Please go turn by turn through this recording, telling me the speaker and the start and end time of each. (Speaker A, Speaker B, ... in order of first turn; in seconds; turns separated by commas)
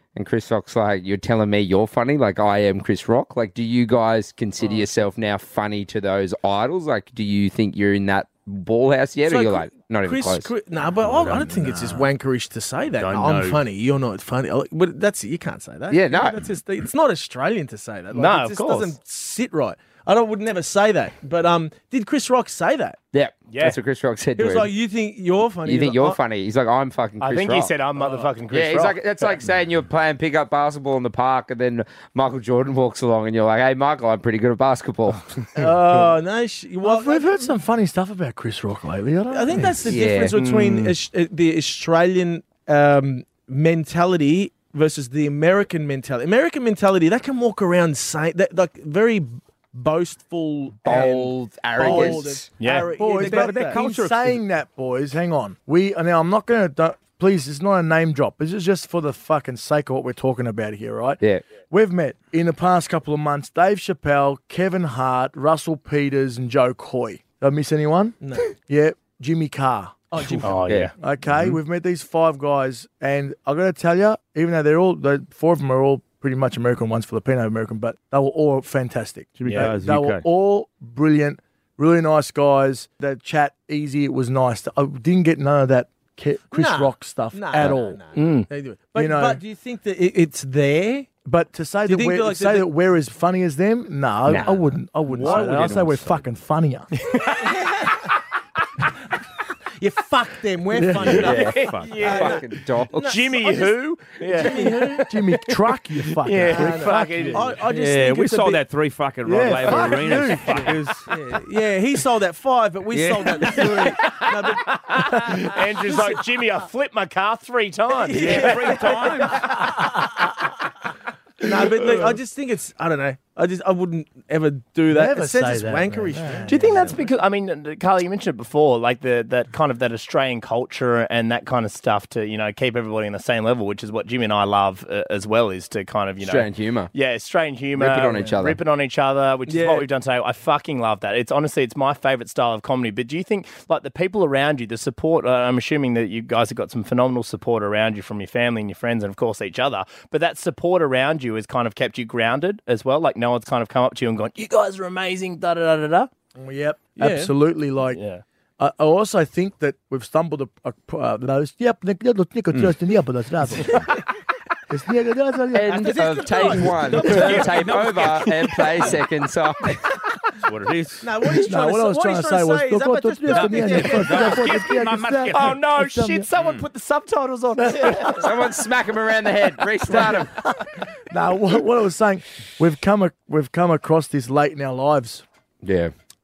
Speaker A: 0.1-10.5, Speaker B: 9.3-23.0, Speaker C: 11.0-12.0, Speaker C: 12.9-13.6, Speaker A: 15.9-16.4, Speaker D: 18.1-18.9, Speaker A: 23.1-24.7, Speaker D: 23.5-23.8, Speaker B: 24.4-26.2, Speaker A: 25.6-27.8, Speaker D: 27.2-29.3, Speaker A: 28.5-35.5, Speaker B: 35.5-37.5, Speaker E: 36.8-40.0, Speaker B: 39.3-53.8, Speaker A: 39.9-40.3, Speaker D: 40.3-41.0, Speaker A: 50.8-52.5, Speaker E: 51.8-52.2, Speaker D: 52.6-52.9, Speaker E: 52.9-70.4, Speaker C: 53.1-54.4, Speaker A: 61.2-61.5, Speaker B: 68.2-68.5, Speaker B: 70.1-70.7, Speaker D: 70.4-70.9, Speaker E: 70.9-88.0, Speaker C: 79.4-80.2, Speaker D: 79.5-79.7, Speaker B: 86.5-91.2, Speaker D: 88.1-88.5, Speaker E: 88.9-89.4, Speaker E: 91.2-97.1, Speaker B: 91.9-92.7, Speaker A: 94.3-94.6, Speaker C: 95.1-96.2, Speaker B: 95.2-95.8, Speaker D: 97.0-97.9, Speaker B: 97.3-98.1, Speaker B: 99.8-105.1, Speaker E: 100.7-101.3, Speaker A: 101.1-103.3, Speaker D: 101.1-105.5, Speaker C: 101.7-102.0, Speaker E: 104.6-107.6, Speaker D: 106.1-107.5, Speaker B: 106.5-108.6, Speaker C: 107.7-111.1, Speaker E: 109.2-110.8, Speaker B: 110.5-116.2, Speaker C: 112.9-113.7, Speaker D: 113.6-119.2, Speaker B: 117.9-119.7, Speaker C: 118.2-119.6, Speaker B: 121.4-127.0, Speaker E: 124.9-127.0, Speaker D: 126.5-156.1, Speaker A: 136.2-136.9, Speaker A: 137.7-138.6, Speaker B: 139.5-139.9, Speaker E: 156.3-158.0, Speaker B: 157.0-157.3, Speaker D: 157.9-158.2, Speaker E: 158.6-164.0, Speaker E: 164.7-166.7, Speaker A: 165.5-169.9, Speaker B: 165.7-168.1, Speaker C: 166.8-168.9, Speaker C: 170.4-171.1, Speaker B: 171.0-174.6, Speaker E: 171.4-176.3, Speaker C: 173.3-175.6, Speaker D: 175.3-178.3, Speaker C: 176.3-176.7, Speaker A: 177.8-180.4, Speaker E: 179.9-185.2, Speaker A: 185.6-185.9